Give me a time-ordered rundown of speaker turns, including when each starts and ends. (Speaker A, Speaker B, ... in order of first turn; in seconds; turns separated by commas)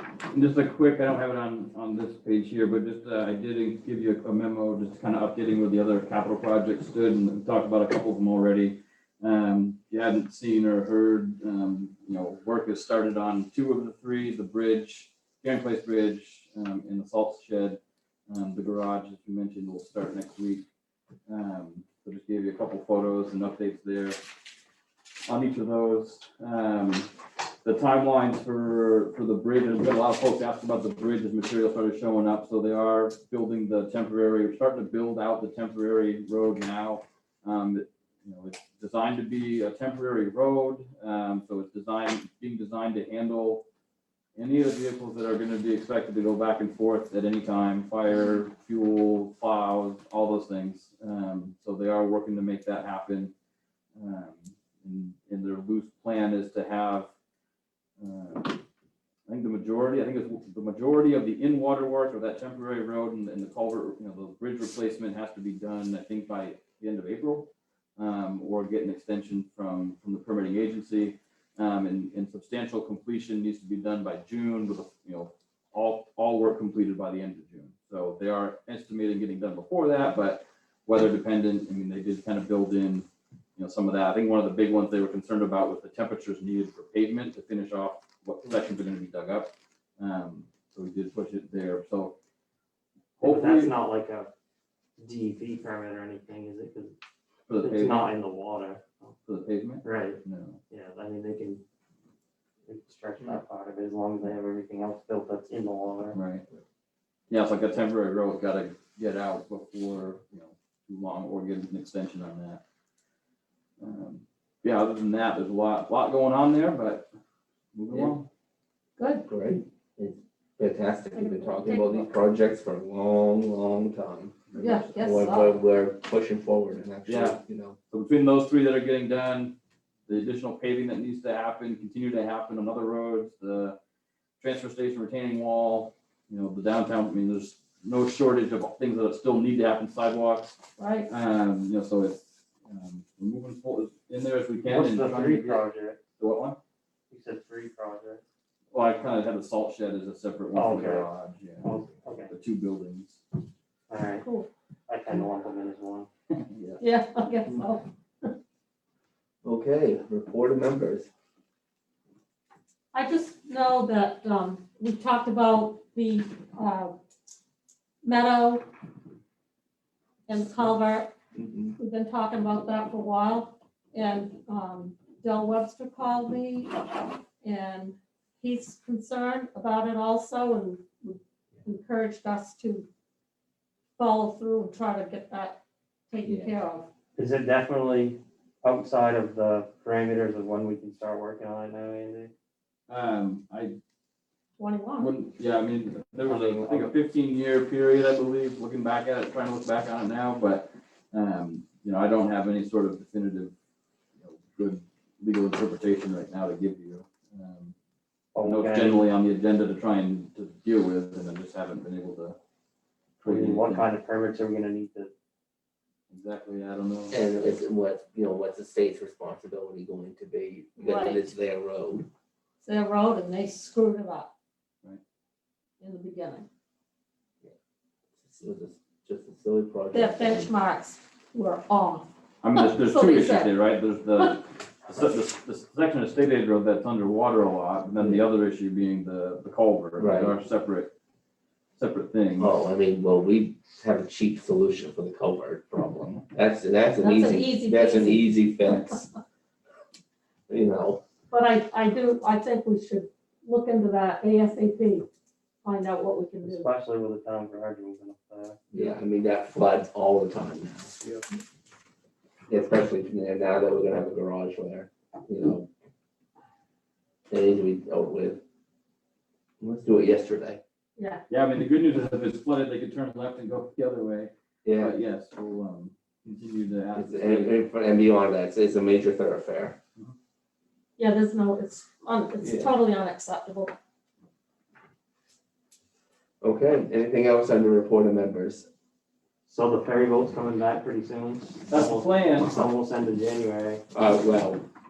Speaker A: 0.3-20.7, Speaker A: 21.3-24.2, Speaker A: 25.3-27.1, Speaker A: 27.6-43.6, Speaker A: 44.4-53.3, Speaker A: 54.0-57.1, Speaker A: 58.0-58.6, Speaker A: 59.3-92.2, Speaker B: 93.2-94.3, Speaker A: 93.2-93.8, Speaker B: 95.0-97.0, Speaker A: 97.5-98.1, Speaker B: 97.6-99.1, Speaker A: 99.3-100.6, Speaker B: 99.8-101.6, Speaker B: 102.7-106.2, Speaker A: 106.1-106.4, Speaker A: 107.3-112.6, Speaker A: 113.8-117.1, Speaker A: 117.7-118.3, Speaker C: 117.9-118.2, Speaker D: 119.0-119.2, Speaker C: 119.3-127.8, Speaker D: 121.1-122.1, Speaker A: 124.5-124.9, Speaker D: 124.6-125.5, Speaker A: 127.1-127.4, Speaker A: 127.9-129.6, Speaker A: 130.1-133.8, Speaker A: 134.4-145.7, Speaker D: 140.8-141.1, Speaker B: 144.7-146.0, Speaker A: 146.2-146.6, Speaker B: 147.1-148.2, Speaker A: 148.7-151.7, Speaker B: 150.5-151.1, Speaker B: 151.6-152.3, Speaker A: 152.3-153.2, Speaker B: 153.9-154.2, Speaker D: 154.2-154.5, Speaker B: 154.9-156.1, Speaker A: 156.3-156.8, Speaker D: 156.8-158.3, Speaker C: 159.4-161.1, Speaker D: 162.9-166.9, Speaker D: 168.0-168.7, Speaker D: 170.3-171.1, Speaker C: 171.4-171.8, Speaker D: 171.8-176.8, Speaker D: 177.4-182.9, Speaker D: 184.0-186.9, Speaker C: 186.2-186.5, Speaker B: 187.2-192.3, Speaker A: 192.9-193.8, Speaker D: 194.6-195.1, Speaker A: 195.0-203.5, Speaker B: 196.3-196.9, Speaker A: 204.2-207.8, Speaker B: 208.3-209.0, Speaker A: 208.4-212.4, Speaker A: 213.2-213.9, Speaker B: 213.2-215.1, Speaker A: 216.1-217.2, Speaker C: 217.1-222.1, Speaker D: 220.8-221.2, Speaker D: 222.6-224.3, Speaker D: 225.8-226.5, Speaker C: 228.2-230.5, Speaker D: 229.9-233.5, Speaker A: 232.4-240.9, Speaker C: 238.0-238.2, Speaker C: 240.0-240.4, Speaker A: 241.8-242.5, Speaker C: 242.4-249.0, Speaker D: 247.0-248.3, Speaker C: 250.5-251.0, Speaker D: 251.3-255.1, Speaker D: 255.6-256.7, Speaker B: 256.4-258.6, Speaker C: 258.7-261.0, Speaker C: 262.5-265.7, Speaker C: 267.3-268.4, Speaker C: 269.6-270.6, Speaker D: 271.0-271.2, Speaker A: 271.3-277.7, Speaker C: 274.6-274.9, Speaker C: 276.9-279.8, Speaker D: 281.0-283.7, Speaker C: 282.4-282.7, Speaker C: 286.4-288.7, Speaker B: 289.5-293.8, Speaker A: 291.7-292.6, Speaker C: 293.9-294.6